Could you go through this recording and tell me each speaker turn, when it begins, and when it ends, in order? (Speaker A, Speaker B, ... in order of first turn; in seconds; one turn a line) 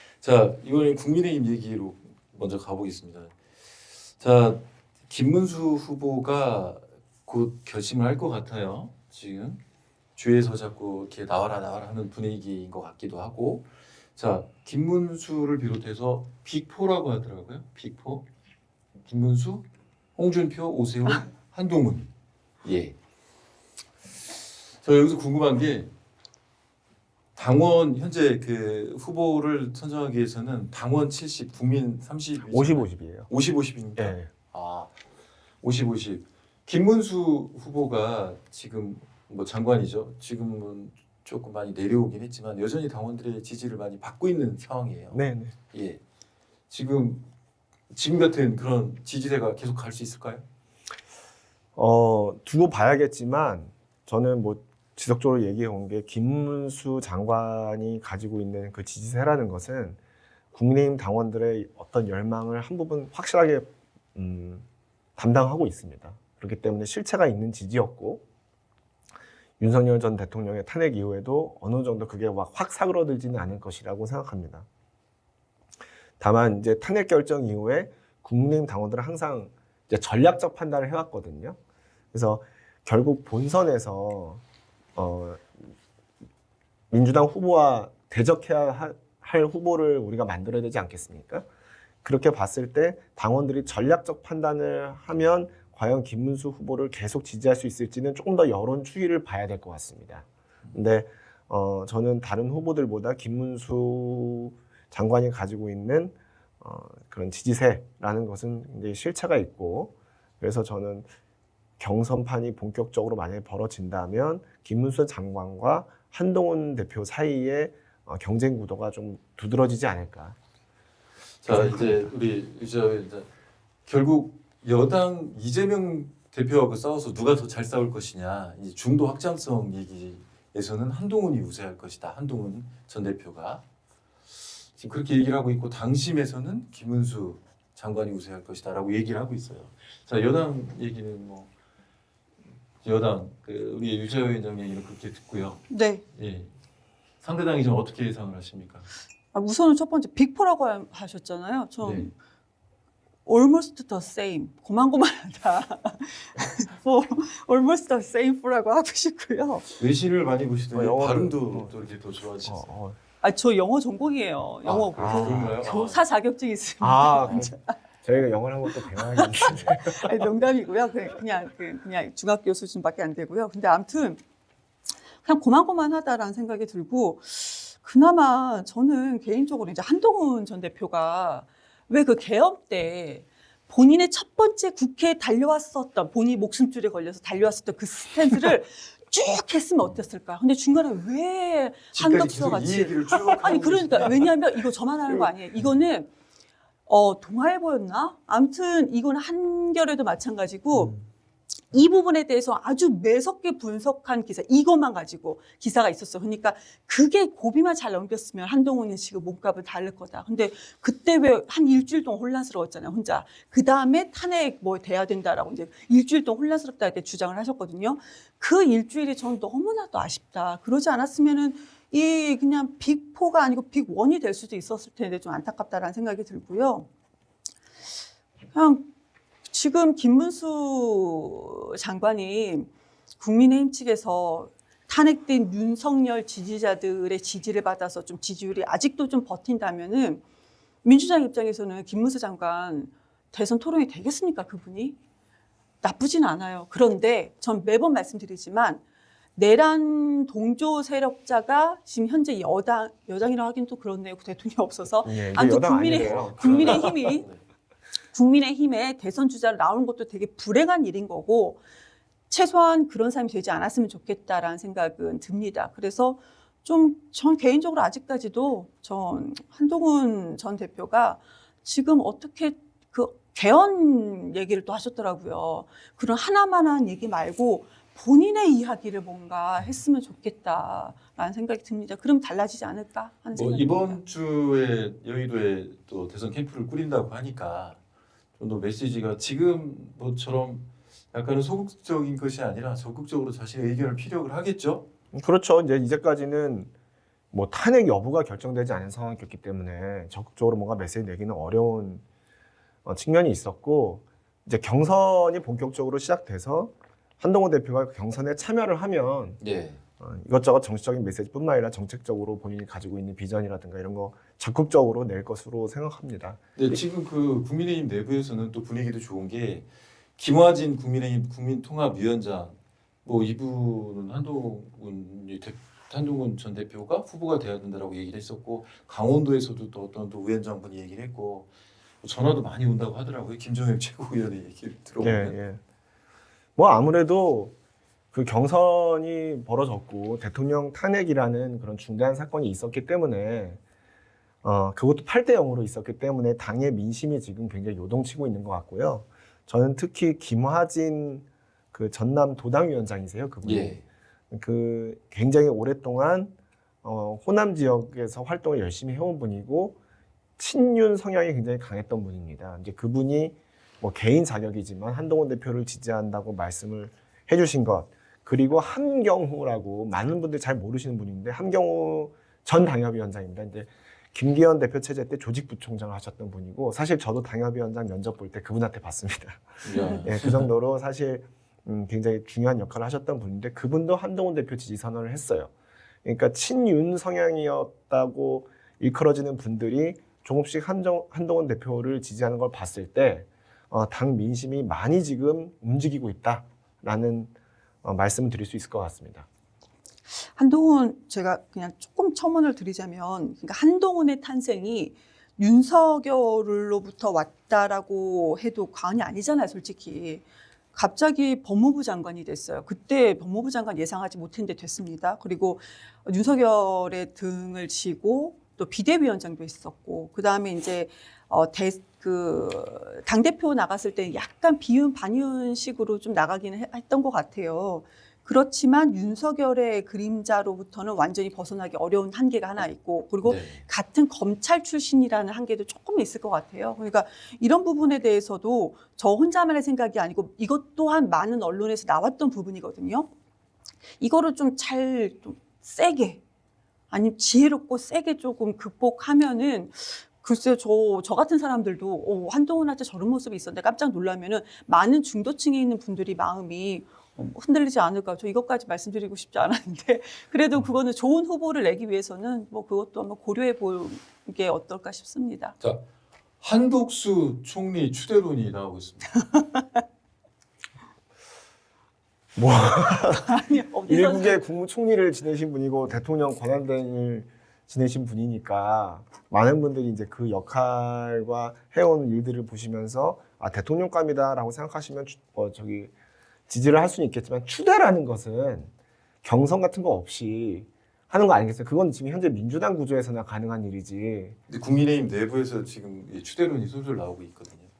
Speaker A: 0.2-3.3
Speaker A: 4.2-9.6
Speaker A: 10.2-18.2
Speaker A: 19.0-22.1
Speaker A: 22.6-22.9
Speaker A: 24.8-25.9
Speaker A: 27.4-34.9
Speaker B: 32.5-33.3
Speaker B: 34.0-34.3
Speaker A: 35.6-45.2
Speaker B: 45.1-45.5
Speaker A: 45.7-46.0
Speaker A: 46.7-47.2
Speaker A: 47.9-50.4
Speaker B: 51.8-60.0
Speaker B: 60.5-64.6
Speaker B: 65.2-68.2
Speaker B: 69.6-74.7
Speaker B: 76.2-81.6
Speaker B: 82.1-84.4
Speaker B: 85.0-85.6
Speaker B: 86.9-91.5
Speaker B: 92.0-111.1
Speaker B: 111.8-120.4
Speaker A: 121.4-123.3
Speaker B: 121.5-122.1
Speaker A: 123.9-133.6
Speaker A: 134.8-141.5
Speaker A: 142.8-146.5
Speaker C: 145.7-146.0
Speaker A: 147.2-148.9
Speaker C: 149.3-152.1
Speaker A: 151.8-152.1
Speaker C: 153.2-159.7
Speaker A: 159.7-162.7
Speaker B: 160.7-161.7
Speaker B: 162.4-163.0
Speaker C: 163.2-167.7
Speaker A: 164.6-166.0
Speaker B: 164.9-165.6
Speaker B: 166.8-170.3
Speaker C: 168.8-174.2
Speaker C: 175.2-196.1
Speaker A: 191.9-194.3
Speaker C: 196.9-200.9
Speaker C: 201.7-226.9
Speaker C: 228.5-228.9
Speaker C: 229.5-240.2
Speaker C: 240.8-245.0
Speaker C: 245.8-248.8
Speaker C: 249.3-257.2
Speaker B: 255.0-257.0
Speaker A: 255.9-257.4
Speaker C: 258.1-261.6
Speaker C: 262.3-284.0
Speaker A: 283.4-287.8
Speaker A: 288.4-294.9
Speaker B: 295.1-296.7
Speaker B: 297.3-302.0
Speaker B: 302.8-309.4
Speaker A: 309.4-309.8
Speaker B: 310.0-316.8
Speaker A: 316.6-331.5
Speaker A: 332.0-335.3
Speaker B: 335.0-335.6
Speaker B: 336.6-337.5
Speaker B: 338.1-343.6
Speaker B: 344.4-359.8
Speaker A: 353.4-353.8
Speaker B: 360.4-385.5
Speaker A: 379.6-380.5
Speaker B: 386.0-397.3
Speaker B: 397.8-399.3
Speaker C: 400.3-443.1
Speaker A: 433.2-433.6
Speaker C: 444.0-446.2
Speaker C: 446.9-465.5
Speaker A: 466.4-469.3
Speaker C: 469.3-469.8
Speaker B: 472.4-485.9
Speaker C: 473.1-474.4
Speaker B: 486.5-488.7
Speaker B: 489.2-494.4
Speaker A: 494.5-497.7